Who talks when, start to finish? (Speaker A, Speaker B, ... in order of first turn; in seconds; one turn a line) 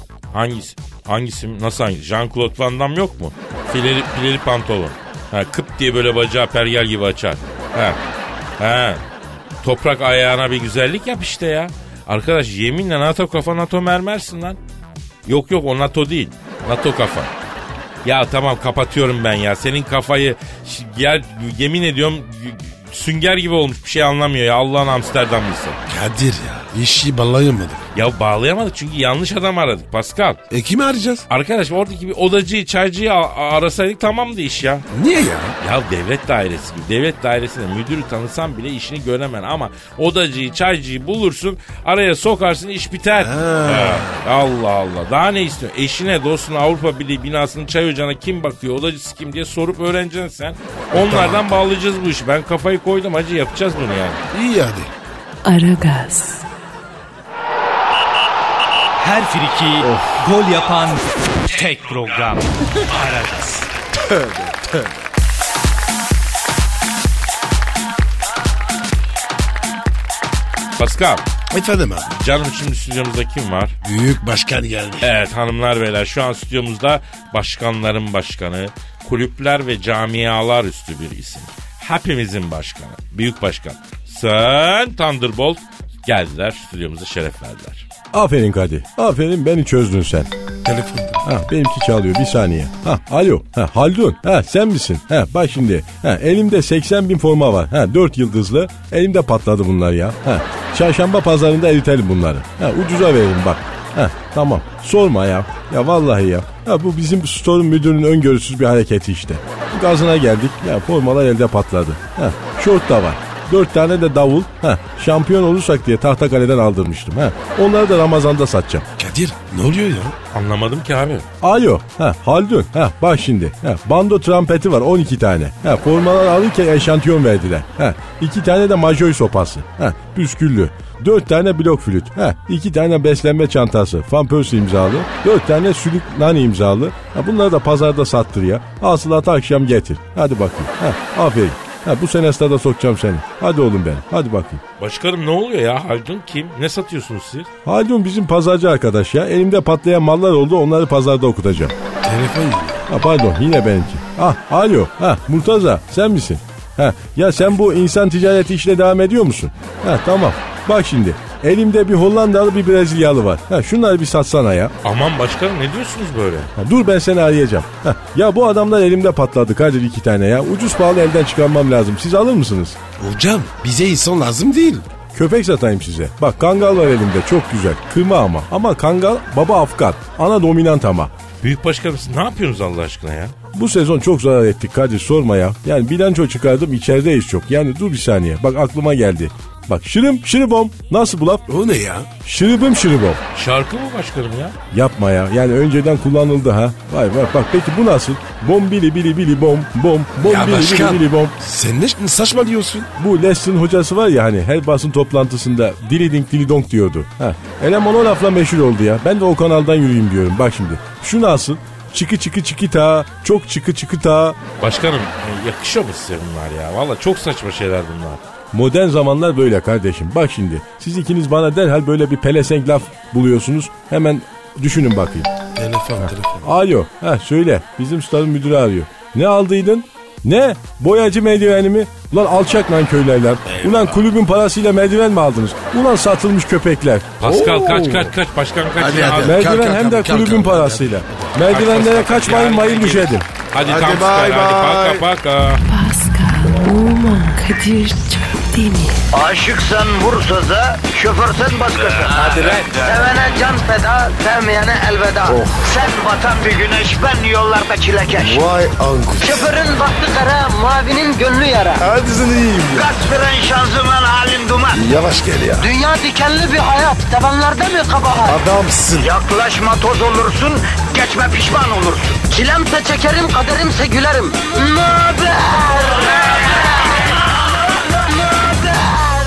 Speaker A: 0.3-8.0
Speaker A: 8.6-9.0
Speaker A: 9.6-14.6
Speaker A: 15.2-17.3
Speaker A: 18.0-25.8
Speaker B: 25.9-27.9
Speaker A: 27.9-30.4
Speaker B: 30.5-31.2
Speaker A: 31.3-34.9
Speaker B: 34.9-35.6
Speaker A: 35.6-54.2
Speaker B: 43.1-44.2
Speaker B: 50.9-51.5
Speaker B: 54.3-54.9
Speaker C: 55.4-56.4
Speaker D: 59.0-63.7
Speaker B: 59.8-60.2
Speaker B: 63.9-64.9
Speaker A: 70.8-71.2
Speaker B: 71.5-72.1
Speaker A: 72.1-73.7
Speaker B: 73.8-75.1
Speaker A: 75.0-87.9
Speaker E: 88.1-90.3
Speaker B: 90.6-91.2
Speaker E: 91.2-118.8
Speaker B: 119.0-120.2
Speaker A: 120.3-121.2
Speaker E: 121.4-144.6
Speaker A: 144.8-147.5
Speaker E: 147.6-151.7
Speaker B: 152.0-152.9
Speaker E: 152.9-164.7
Speaker A: 164.8-166.5
Speaker E: 166.6-172.8
Speaker B: 173.0-174.9
Speaker E: 175.1-181.1
Speaker A: 181.4-183.3
Speaker E: 183.5-191.4
Speaker B: 191.5-192.1
Speaker E: 192.2-193.2
Speaker A: 193.3-194.6
Speaker E: 194.7-201.3
Speaker B: 200.2-202.9
Speaker E: 203.0-214.4
Speaker A: 214.6-218.2
Speaker E: 218.5-225.3
Speaker B: 225.6-226.5
Speaker E: 226.0-237.1
Speaker B: 233.4-234.0
Speaker A: 237.2-239.4
Speaker B: 237.2-238.1
Speaker B: 238.8-241.3
Speaker E: 239.2-243.2
Speaker A: 241.5-245.6
Speaker B: 243.6-245.1
Speaker C: 245.7-249.0
Speaker F: 249.1-258.5
Speaker B: 252.1-252.7
Speaker B: 255.3-255.7
Speaker B: 258.1-259.5
Speaker F: 259.2-261.9
Speaker B: 261.8-262.9
Speaker F: 262.7-264.8
Speaker B: 264.7-265.7
Speaker F: 265.6-268.4
Speaker B: 268.2-269.1
Speaker F: 269.0-276.6
Speaker F: 278.3-278.9